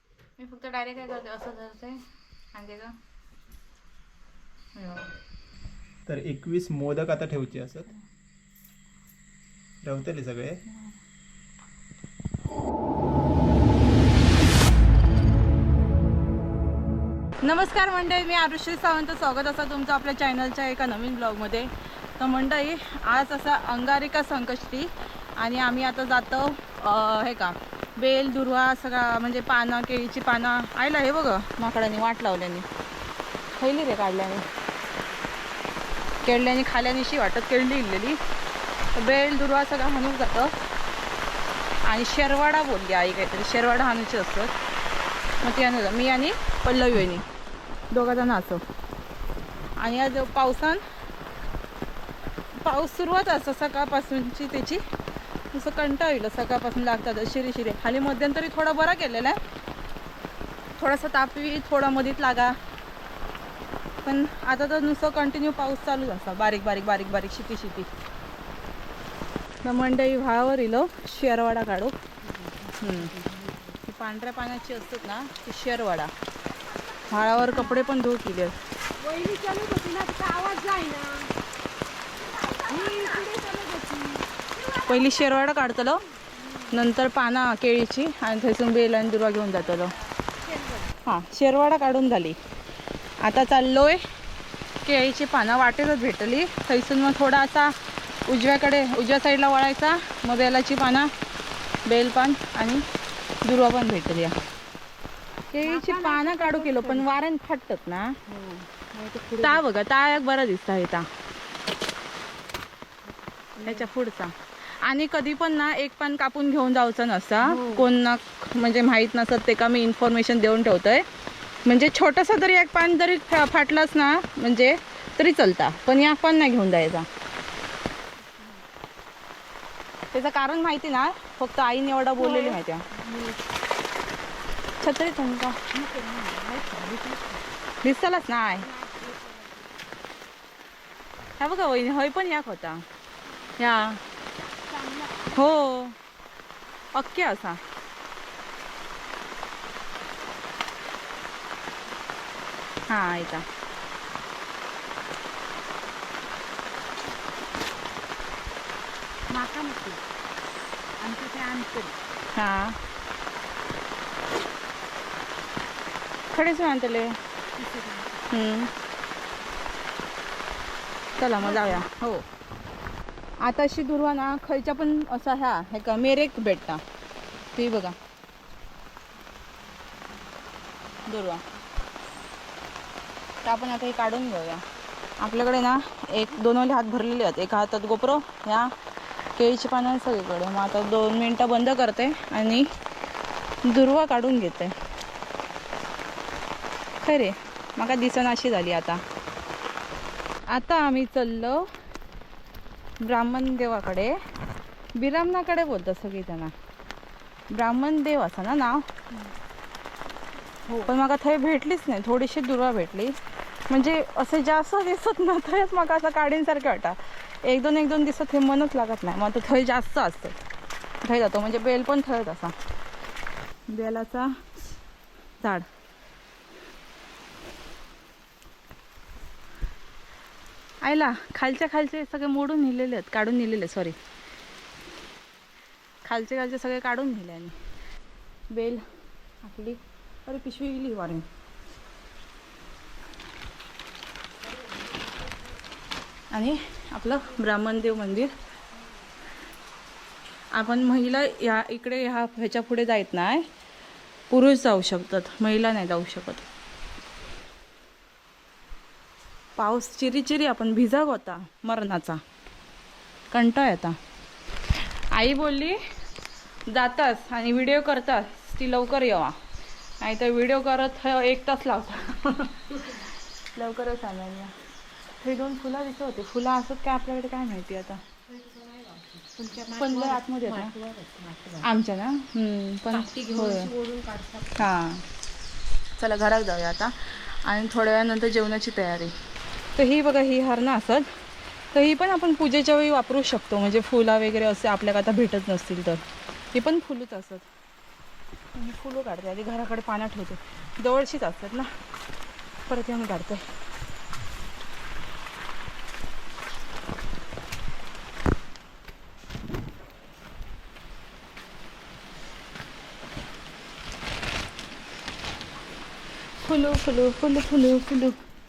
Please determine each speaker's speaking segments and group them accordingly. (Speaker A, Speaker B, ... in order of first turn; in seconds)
Speaker A: 0.4-2.0, 2.5-2.9, 4.7-5.1, 10.7-10.9, 17.4-32.7, 33.5-34.5, 36.2-38.2, 38.9-40.5, 41.8-44.5, 45.4-47.2, 47.9-48.6, 49.8-50.8, 52.6-54.8, 55.5-59.4, 60.8-62.6, 64.0-67.9, 69.6-71.9, 72.8-73.1, 73.8-76.1, 77.1-78.6, 82.9-83.3, 84.7-86.0, 86.7-90.0, 91.0-92.4, 93.2-94.0, 94.8-97.7, 98.2-101.1, 101.8-102.8, 103.4-104.4, 105.5-108.2, 109.4-111.1, 113.6-121.0, 121.6-127.0, 130.1-132.9, 134.8-135.6, 137.8-138.7, 141.4-142.8, 143.6-144.0, 145.3-145.9, 146.9-147.6, 152.9-153.4, 162.3-162.8, 166.3-167.2, 168.3-168.7, 171.2-172.2, 173.4-176.8, 177.5-177.9, 181.1-181.4, 183.4-184.6, 185.2-188.7, 189.3-192.7, 193.6-194.7, 197.0-199.0, 200.5-201.7, 203.0-204.1, 204.9-206.5, 207.5-208.9, 210.8-213.2, 213.7-220.4, 221.0-222.5, 223.7-224.3, 225.4-225.7, 230.8-233.9, 236.0-237.6, 238.5-238.8, 239.4-241.2, 246.3-248.3, 250.5-253.4, 254.3-256.4, 259.6-262.2, 263.3-264.0, 264.7-265.8, 266.7-269.4, 270.0-274.5, 275.2-278.0, 279.6-280.7, 281.6-283.7, 284.5-285.0, 286.0-289.1, 289.7-297.5, 298.5-301.7, 302.6-303.4, 316.4-318.1
Speaker B: 6.1-7.9, 9.8-10.6
Speaker C: 72.5-73.5, 77.4-77.7, 79.0-81.3, 82.4-84.3, 86.4-86.7, 90.4-90.9, 105.6-107.1, 108.3-109.6, 113.6-113.8, 117.4-117.8, 132.2-133.4, 135.7-137.4, 138.6-139.7, 144.7-145.4, 159.3-160.0, 161.0-161.9, 167.6-168.2, 171.4-171.8, 278.3-281.6, 282.9-284.6